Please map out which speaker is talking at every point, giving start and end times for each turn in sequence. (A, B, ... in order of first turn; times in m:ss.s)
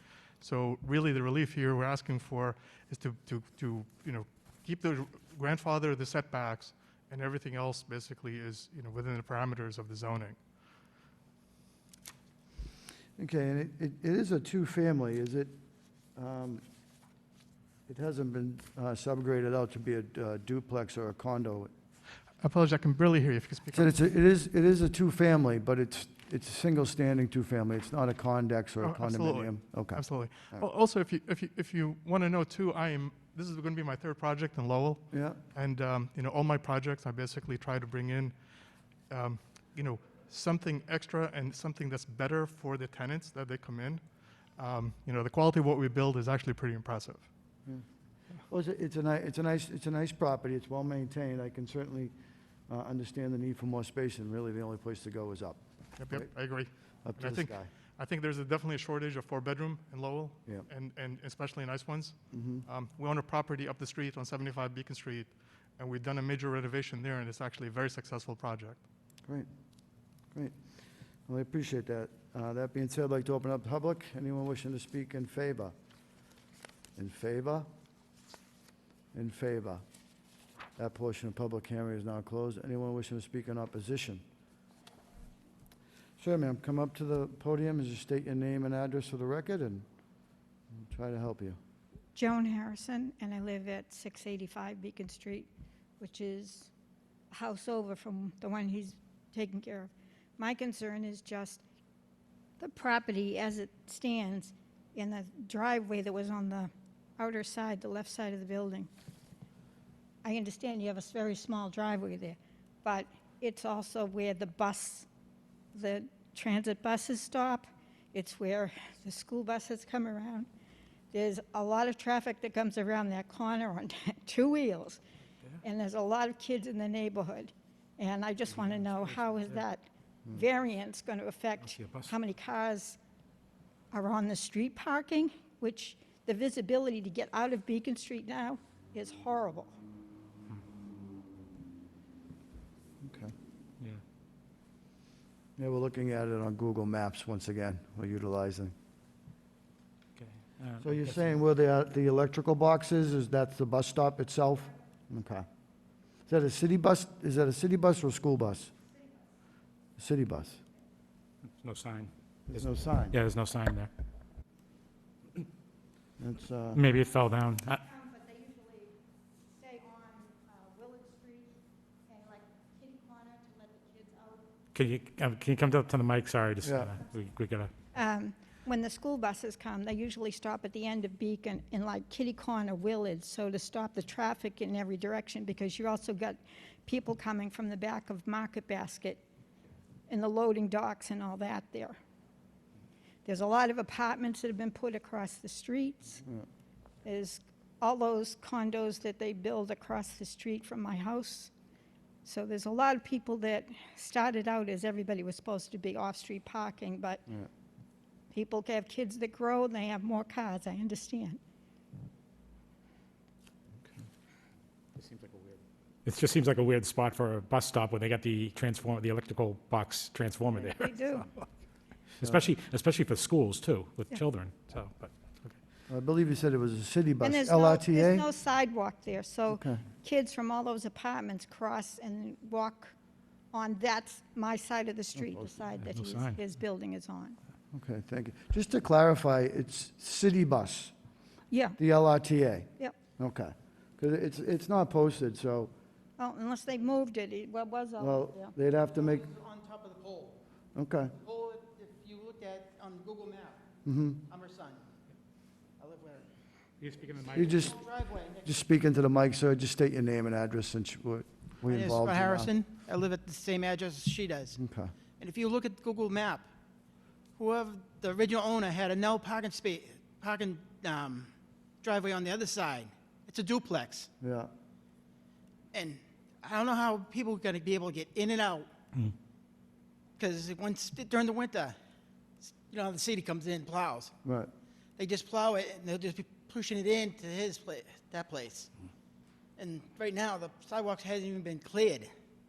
0:00.4-0:10.4 A
0:13.2-0:15.5 B
0:16.2-0:16.6 B
0:17.9-0:21.7 B
0:22.4-0:23.9 A
0:23.7-0:30.6 B
0:28.8-0:38.3 A
0:35.1-0:35.4 B
0:39.1-0:44.0 A
0:44.6-0:47.3 A
0:48.5-0:52.1 B
0:52.7-0:56.3 B
0:56.0-1:08.8 A
0:57.0-0:57.7 B
1:02.3-1:02.6 B
1:11.3-1:15.7 B
1:17.0-1:17.6 B
1:19.1-1:19.8 B
1:20.8-1:24.2 B
1:26.2-1:29.8 B
1:30.7-1:31.6 B
1:32.1-1:36.7 C
1:37.3-1:41.6 C
1:42.6-1:48.9 C
1:50.2-1:55.1 C
1:55.7-2:00.5 C
2:01.1-2:05.0 C
2:05.6-2:13.0 C
2:08.6-2:09.1 D
2:11.6-2:12.1 D
2:13.9-2:19.7 C
2:23.0-2:23.3 B
2:25.6-2:28.7 B
2:30.2-2:31.2 D
2:30.8-2:35.5 B
2:36.3-2:38.7 B
2:40.0-2:40.6 B
2:41.6-2:43.9 D
2:42.5-2:43.2 B
2:46.2-2:46.8 B
2:46.7-2:47.8 D
2:47.9-2:48.9 C
2:49.5-2:51.5 C
2:52.1-2:54.4 C
2:54.7-2:57.7 D
2:56.6-2:56.9 B
2:57.9-3:09.2 C
3:10.1-3:12.0 C
3:13.2-3:16.2 C
3:17.0-3:21.5 C
3:22.2-3:27.3 C
3:28.3-3:31.4 C
3:35.0-3:41.2 D
3:40.6-3:41.2 C
3:42.2-3:45.1 D
3:45.9-3:48.2 B
3:47.2-3:52.9 C
3:49.5-3:49.8 B
3:53.5-3:57.4 C
3:55.8-3:56.4 D
3:57.7-4:00.9 B
4:01.5-4:01.8 C
4:01.8-4:05.7 B
4:06.2-4:08.5 C
4:08.0-4:09.2 B
4:08.9-4:10.4 E
4:10.7-4:11.1 B
4:11.1-4:13.6 E
4:13.8-4:14.2 B
4:14.3-4:14.8 E
4:15.8-4:16.3 E
4:16.8-4:17.7 D
4:17.2-4:18.6 E
4:17.3-4:17.8 B
4:18.4-4:22.5 B
4:21.7-4:24.6 E
4:24.6-4:24.9 B
4:25.2-4:26.4 E
4:27.4-4:31.3 E
4:31.8-4:34.1 E
4:34.2-4:34.5 B
4:35.7-4:38.7 E
4:40.2-4:41.8 E
4:42.4-4:44.1 E
4:44.2-4:44.5 B
4:45.0-4:48.7 E
4:49.6-4:52.1 E